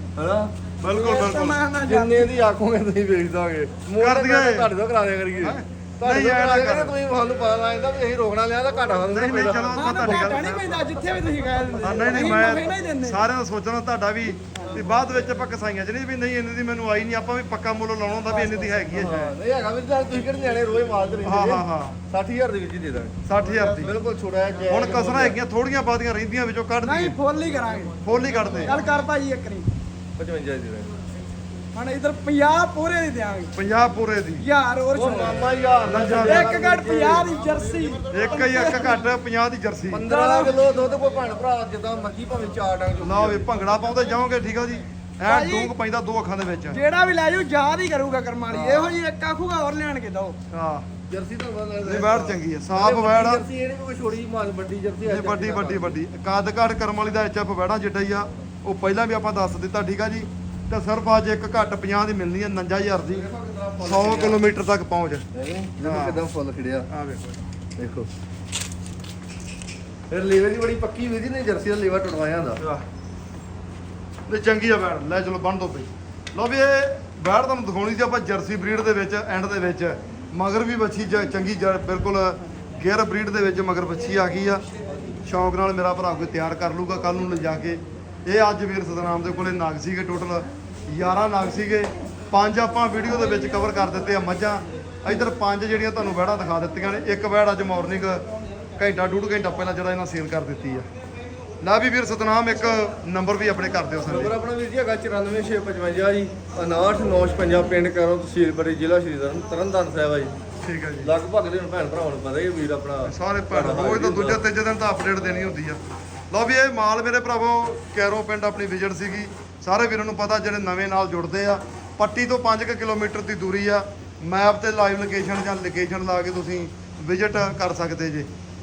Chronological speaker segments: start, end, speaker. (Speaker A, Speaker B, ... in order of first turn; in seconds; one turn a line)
Speaker A: 0.1-0.5
Speaker B: 0.8-1.6
Speaker C: 0.9-2.3
Speaker A: 1.8-10.8
Speaker B: 4.0-4.7
Speaker B: 5.4-7.0
Speaker C: 8.7-9.0
Speaker B: 9.1-10.8
Speaker C: 9.7-13.2
Speaker A: 11.4-12.8
Speaker B: 11.8-19.3
Speaker C: 14.6-14.8
Speaker C: 18.3-19.0
Speaker A: 18.9-25.4
Speaker B: 21.2-22.0
Speaker B: 23.2-23.9
Speaker B: 24.7-27.1
Speaker C: 26.8-28.0
Speaker B: 28.0-28.8
Speaker A: 28.1-28.7
Speaker C: 28.6-29.7
Speaker A: 30.1-30.9
Speaker C: 31.7-33.5
Speaker B: 33.5-34.4
Speaker C: 34.4-35.4
Speaker A: 34.9-38.7
Speaker B: 35.8-36.6
Speaker C: 36.2-39.0
Speaker B: 38.1-40.0
Speaker A: 39.9-43.5
Speaker C: 40.1-40.8
Speaker B: 43.0-46.8
Speaker C: 45.2-45.7
Speaker C: 46.7-50.4
Speaker A: 48.5-48.9
Speaker B: 50.5-50.9
Speaker A: 51.1-56.0
Speaker B: 51.8-53.5
Speaker B: 55.0-63.3
Speaker A: 63.1-64.4
Speaker B: 63.8-65.2
Speaker A: 65.3-66.9
Speaker B: 65.8-66.2
Speaker B: 66.9-67.5
Speaker A: 67.8-68.1
Speaker A: 70.1-72.6
Speaker B: 74.3-84.6
Speaker A: 84.8-85.2
Speaker B: 85.2-98.2
Speaker B: 98.8-100.9
Speaker B: 101.6-104.3
Speaker A: 104.0-110.3
Speaker B: 110.6-111.1
Speaker A: 111.0-114.4
Speaker B: 113.0-128.3